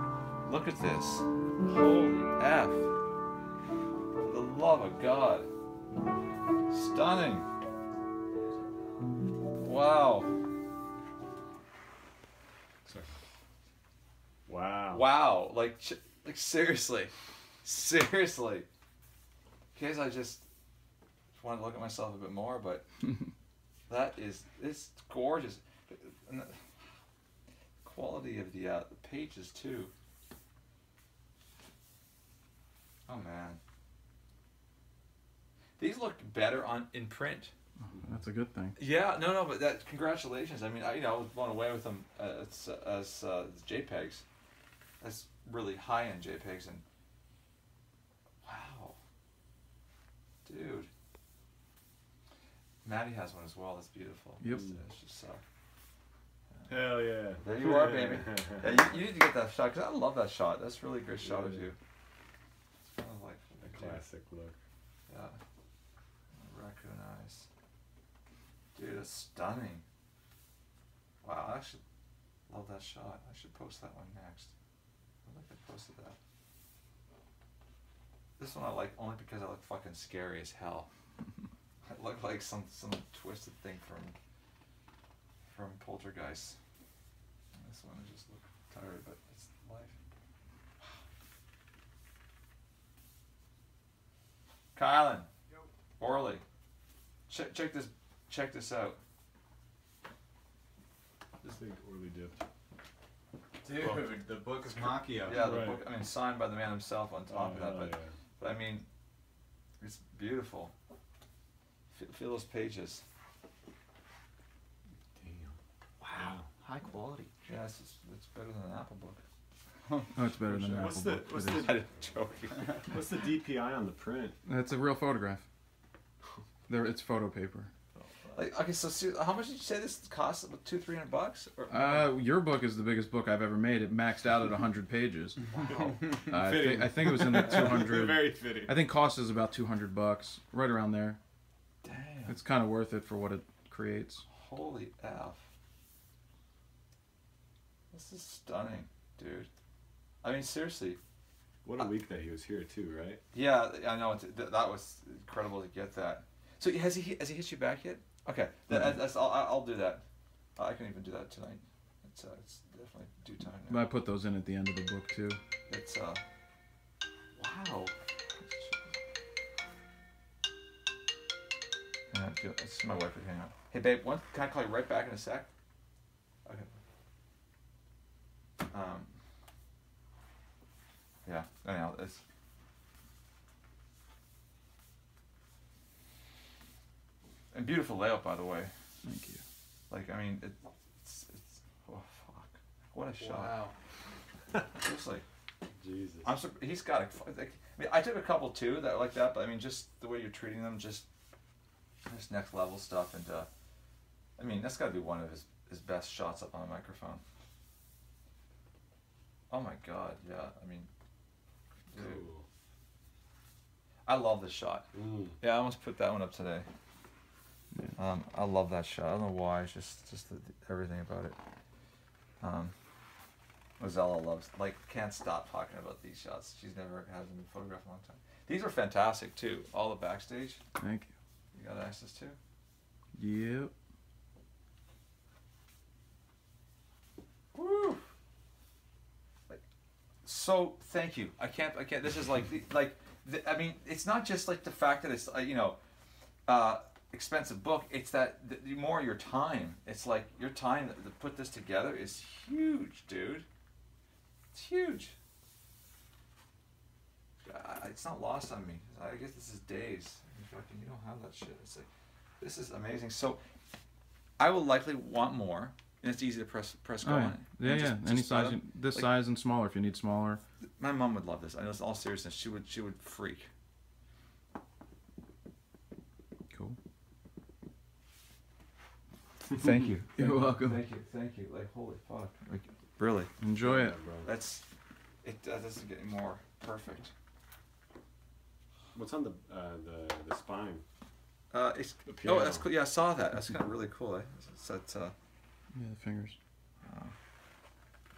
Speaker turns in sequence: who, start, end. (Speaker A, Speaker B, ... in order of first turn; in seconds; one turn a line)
Speaker A: 0.4-2.9
Speaker A: 4.2-5.5
Speaker A: 6.7-7.5
Speaker A: 9.6-10.4
Speaker B: 14.4-15.1
Speaker A: 14.9-17.1
Speaker A: 17.6-18.7
Speaker A: 19.8-20.4
Speaker A: 21.3-22.8
Speaker A: 23.9-26.6
Speaker A: 27.8-29.9
Speaker A: 33.1-33.6
Speaker A: 35.8-37.5
Speaker C: 37.8-38.8
Speaker A: 38.8-44.2
Speaker A: 45.0-46.8
Speaker A: 48.4-49.0
Speaker A: 50.5-50.9
Speaker A: 52.8-55.4
Speaker C: 54.4-54.7
Speaker B: 54.5-54.8
Speaker A: 56.5-61.8
Speaker B: 56.7-58.8
Speaker B: 61.2-61.7
Speaker A: 62.8-64.0
Speaker B: 63.6-64.6
Speaker A: 65.1-65.4
Speaker A: 66.3-67.5
Speaker A: 68.8-69.8
Speaker A: 71.2-71.8
Speaker A: 72.5-74.5
Speaker A: 75.2-76.2
Speaker A: 78.4-80.9
Speaker A: 81.9-84.2
Speaker A: 85.5-86.6
Speaker A: 87.5-90.0
Speaker A: 94.8-95.3
Speaker A: 96.0-96.4
Speaker A: 97.3-99.0
Speaker B: 101.4-102.4
Speaker D: 103.6-105.5
Speaker A: 105.2-108.9
Speaker B: 105.3-105.9
Speaker B: 107.3-108.2
Speaker A: 109.8-110.7
Speaker A: 111.9-113.0
Speaker B: 115.2-115.6
Speaker D: 116.0-117.5
Speaker B: 116.1-116.5
Speaker A: 117.5-119.2
Speaker C: 120.1-121.8
Speaker B: 120.5-121.8
Speaker A: 120.7-122.9
Speaker B: 122.9-124.4
Speaker C: 124.5-125.5
Speaker C: 126.7-127.7
Speaker A: 128.3-132.1
Speaker C: 131.7-135.4
Speaker A: 135.5-136.1
Speaker D: 135.8-136.3
Speaker C: 136.2-141.2
Speaker B: 136.3-138.8
Speaker A: 141.8-142.4
Speaker C: 142.3-144.2
Speaker A: 144.3-145.4
Speaker A: 147.9-149.5
Speaker A: 150.2-151.0
Speaker B: 151.6-153.2
Speaker A: 153.3-160.0
Speaker A: 160.6-163.9
Speaker C: 163.7-165.4
Speaker A: 165.7-166.2
Speaker A: 167.3-167.9
Speaker A: 172.1-175.5
Speaker A: 176.4-176.7
Speaker A: 178.7-179.1
Speaker A: 181.2-182.2
Speaker A: 187.5-188.7
Speaker C: 189.0-189.4
Speaker A: 189.9-193.6
Speaker D: 193.4-193.7
Speaker A: 194.7-195.2
Speaker B: 195.8-196.3
Speaker A: 196.2-201.1
Speaker A: 202.1-203.5
Speaker A: 204.4-207.2
Speaker A: 209.5-210.9
Speaker A: 211.9-212.2
Speaker B: 211.9-212.4
Speaker A: 214.1-214.9
Speaker B: 214.9-215.4
Speaker A: 215.4-216.7
Speaker A: 217.9-221.4
Speaker A: 222.4-222.7
Speaker A: 223.8-230.6
Speaker C: 230.8-231.1
Speaker A: 231.5-232.4
Speaker C: 233.1-233.7
Speaker A: 237.5-238.0
Speaker A: 240.2-245.8
Speaker A: 246.5-253.4
Speaker A: 254.5-255.1
Speaker A: 257.4-261.9
Speaker A: 262.4-263.4
Speaker A: 264.4-269.1
Speaker C: 267.0-270.4
Speaker A: 270.8-273.5
Speaker C: 276.5-276.8
Speaker A: 279.5-283.3
Speaker C: 280.1-280.8
Speaker C: 283.4-283.9
Speaker B: 283.6-284.3
Speaker A: 284.2-284.6
Speaker A: 285.2-287.1
Speaker B: 288.9-290.8
Speaker A: 291.5-295.1
Speaker B: 292.1-292.7
Speaker C: 295.8-296.4
Speaker A: 296.8-297.1